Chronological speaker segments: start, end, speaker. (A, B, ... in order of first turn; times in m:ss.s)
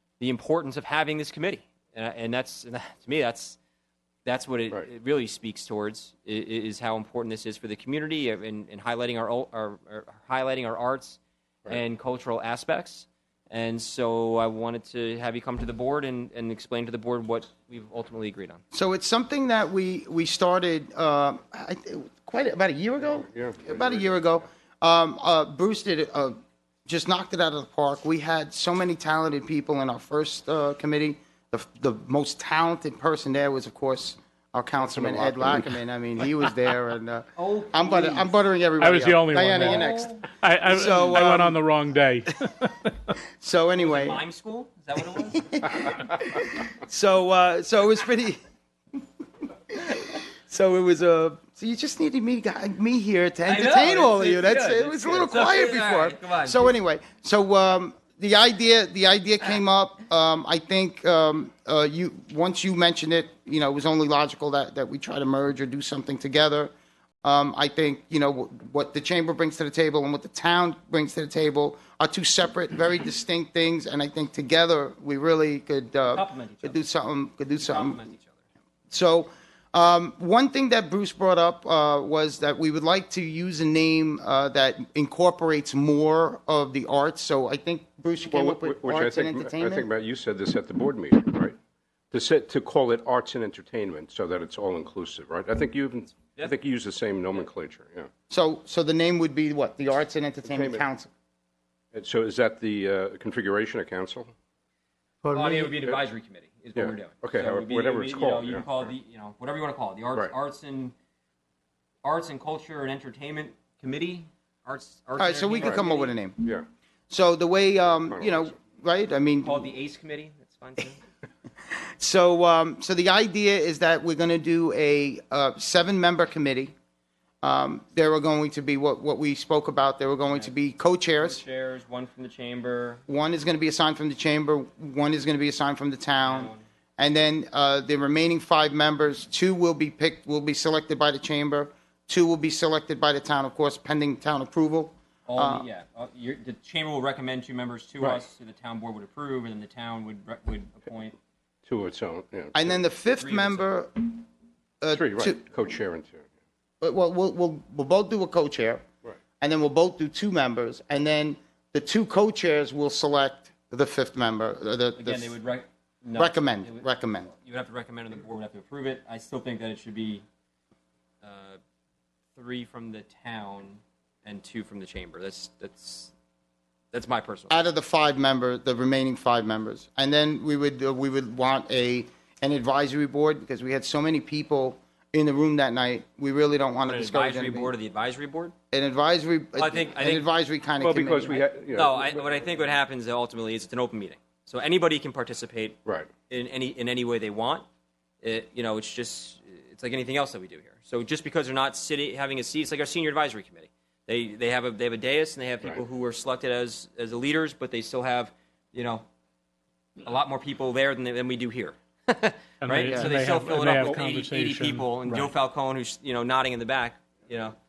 0:00.2-0:03.6 A
0:04.2-0:18.6 A
0:18.7-0:41.6 B
0:23.1-0:24.3 C
0:34.8-0:35.8 C
0:37.4-0:38.4 A
0:38.8-0:43.0 D
0:39.6-0:40.2 A
0:43.4-0:44.2 B
0:43.7-0:45.5 A
0:45.3-0:48.4 B
0:49.7-1:06.7 B
0:53.4-0:56.7 A
1:07.2-1:18.0 B
1:16.1-1:16.8 A
1:17.6-1:18.4 A
1:18.9-1:29.9 B
1:28.3-1:31.6 C
1:32.1-1:38.1 C
1:36.2-1:36.6 A
1:38.3-1:41.1 B
1:40.4-1:40.8 C
1:41.9-1:44.3 C
1:45.2-1:45.7 B
1:45.3-1:50.9 A
1:46.8-1:48.9 C
1:52.0-1:56.1 A
1:55.2-1:56.5 B
1:57.1-1:59.6 B
1:58.1-1:58.5 C
1:59.4-2:01.0 A
2:01.7-2:06.7 B
2:07.4-2:11.4 B
2:10.3-2:10.5 A
2:11.2-2:13.0 A
2:13.1-2:25.6 B
2:16.2-2:16.6 A
2:25.2-2:31.2 A
2:31.6-2:32.8 C
2:32.5-2:34.2 B
2:33.2-2:33.7 A
2:34.8-2:35.4 B
2:34.9-2:36.2 C
2:36.8-2:38.8 B
2:39.4-2:45.3 B
2:45.0-2:50.2 A
2:46.2-2:47.3 B
2:51.2-2:51.6 A
2:52.3-2:56.1 A
2:56.9-2:57.6 A
2:57.5-3:07.7 B
3:06.8-3:08.5 A
3:08.7-3:11.4 B
3:09.6-3:10.3 A
3:10.8-3:12.2 C
3:11.7-3:17.6 A
3:18.2-3:29.0 A
3:30.0-3:37.6 A
3:32.6-3:35.3 D
3:32.9-3:33.1 B
3:33.7-3:34.0 C